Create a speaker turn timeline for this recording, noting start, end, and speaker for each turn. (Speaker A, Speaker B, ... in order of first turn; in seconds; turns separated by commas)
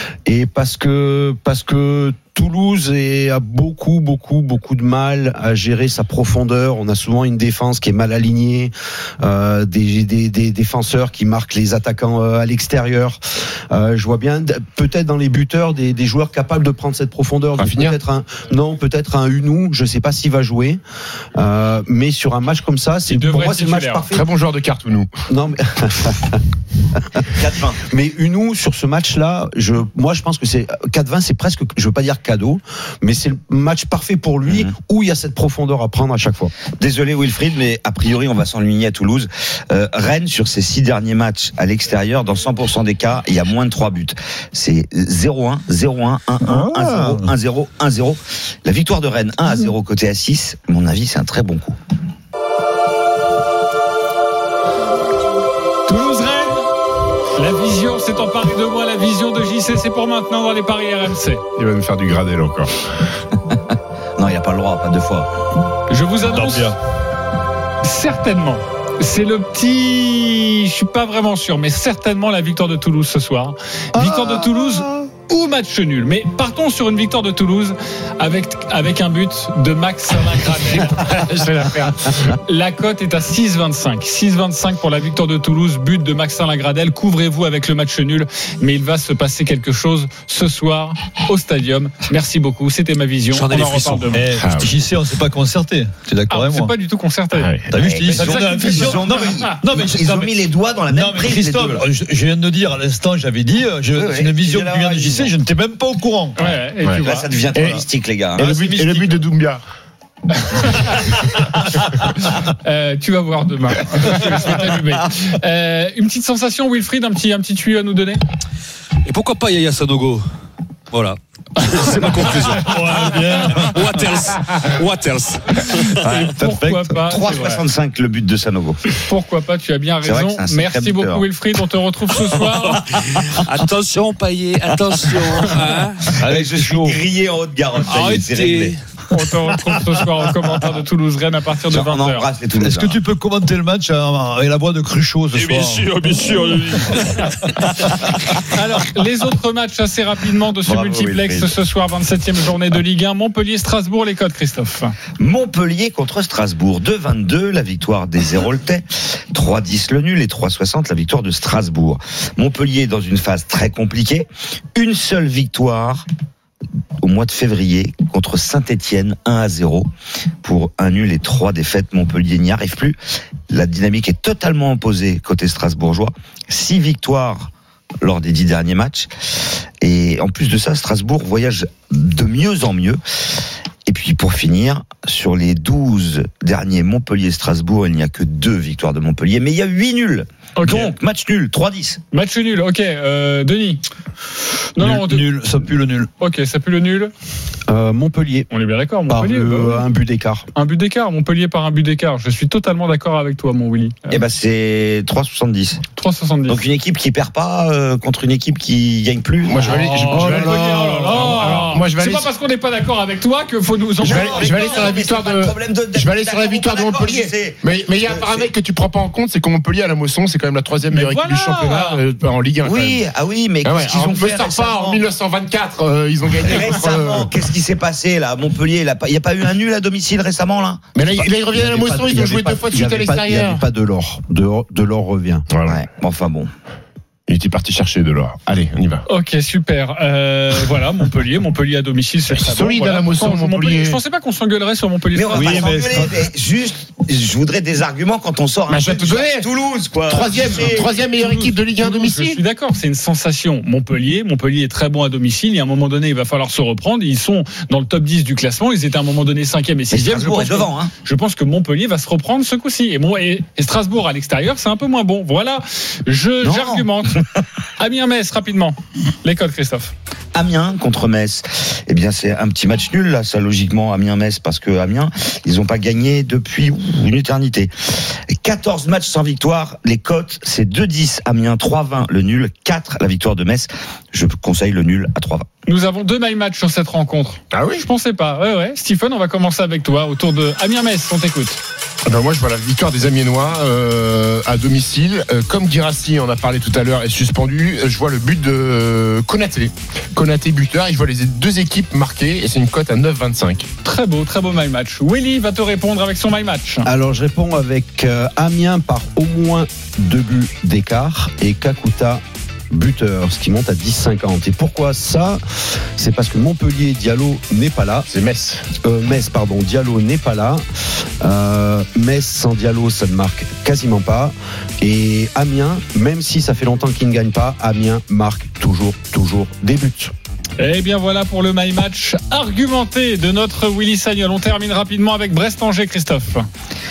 Speaker A: 0.3-13.2, Speaker A: 13.7-20.8, Speaker B: 17.6-18.0, Speaker A: 21.4-24.3, Speaker C: 23.1-24.1, Speaker B: 24.1-25.1, Speaker A: 25.3-26.4, Speaker D: 27.3-27.8, Speaker A: 27.9-36.5, Speaker D: 34.5-34.7, Speaker D: 36.8-51.8, Speaker E: 46.4-47.3, Speaker C: 55.9-56.7, Speaker C: 57.4-61.4, Speaker B: 61.6-62.9, Speaker D: 64.2-65.3, Speaker C: 65.9-66.7, Speaker E: 66.2-66.8, Speaker C: 67.8-94.3, Speaker E: 74.0-75.0, Speaker B: 81.2-81.8, Speaker F: 93.3-94.2, Speaker E: 94.1-96.7, Speaker B: 94.4-94.8, Speaker C: 96.3-97.5, Speaker B: 97.3-97.8, Speaker E: 97.7-100.3, Speaker D: 97.8-101.9, Speaker C: 98.1-99.5, Speaker E: 100.9-106.4, Speaker D: 104.0-105.3, Speaker C: 106.4-107.3, Speaker B: 106.8-109.6, Speaker D: 107.0-108.7, Speaker E: 108.8-109.0, Speaker C: 110.4-111.3, Speaker C: 112.6-118.2, Speaker F: 119.1-120.2, Speaker F: 120.9-125.8, Speaker E: 122.2-124.0, Speaker D: 125.9-128.8, Speaker C: 126.0-127.6, Speaker C: 129.0-132.9, Speaker D: 130.0-131.3, Speaker F: 132.5-136.2, Speaker D: 136.2-138.8, Speaker E: 136.2-137.0, Speaker F: 137.8-138.8, Speaker C: 139.1-142.3, Speaker D: 141.7-143.0, Speaker E: 142.6-146.5, Speaker F: 145.3-147.3, Speaker C: 148.5-155.0, Speaker D: 150.7-151.5, Speaker D: 155.2-166.1, Speaker D: 167.0-169.9, Speaker D: 170.4-173.0, Speaker D: 173.5-177.5, Speaker D: 178.0-179.1, Speaker D: 179.8-183.0, Speaker D: 183.9-192.0, Speaker C: 190.6-190.9, Speaker C: 192.1-193.8, Speaker C: 194.8-195.3, Speaker E: 194.8-196.1, Speaker C: 196.2-197.1, Speaker A: 197.7-198.5, Speaker C: 198.5-199.8, Speaker A: 199.1-200.5, Speaker C: 200.6-204.2, Speaker D: 204.1-205.8, Speaker C: 206.0-206.6, Speaker D: 206.5-209.8, Speaker B: 209.4-212.3, Speaker C: 209.7-214.9, Speaker D: 214.0-218.5, Speaker B: 214.0-223.1, Speaker C: 220.9-222.0, Speaker D: 222.6-225.0, Speaker B: 223.6-227.3, Speaker D: 226.4-230.9, Speaker B: 230.9-233.6, Speaker A: 231.4-235.5, Speaker B: 235.5-235.8, Speaker D: 235.7-236.5, Speaker B: 237.3-239.1, Speaker C: 239.1-245.8, Speaker B: 242.3-244.0, Speaker D: 245.2-251.0, Speaker E: 245.3-246.2, Speaker B: 248.7-249.5, Speaker B: 250.1-252.4, Speaker C: 251.2-267.2, Speaker D: 259.9-260.9, Speaker D: 266.4-266.9, Speaker C: 267.8-269.9, Speaker D: 270.3-285.5, Speaker C: 285.7-291.6, Speaker B: 287.5-287.9, Speaker B: 292.1-303.7, Speaker C: 303.8-306.9, Speaker A: 306.8-315.4, Speaker A: 316.0-318.1, Speaker B: 318.1-318.6, Speaker A: 318.8-320.6, Speaker A: 321.2-330.1, Speaker C: 330.6-336.5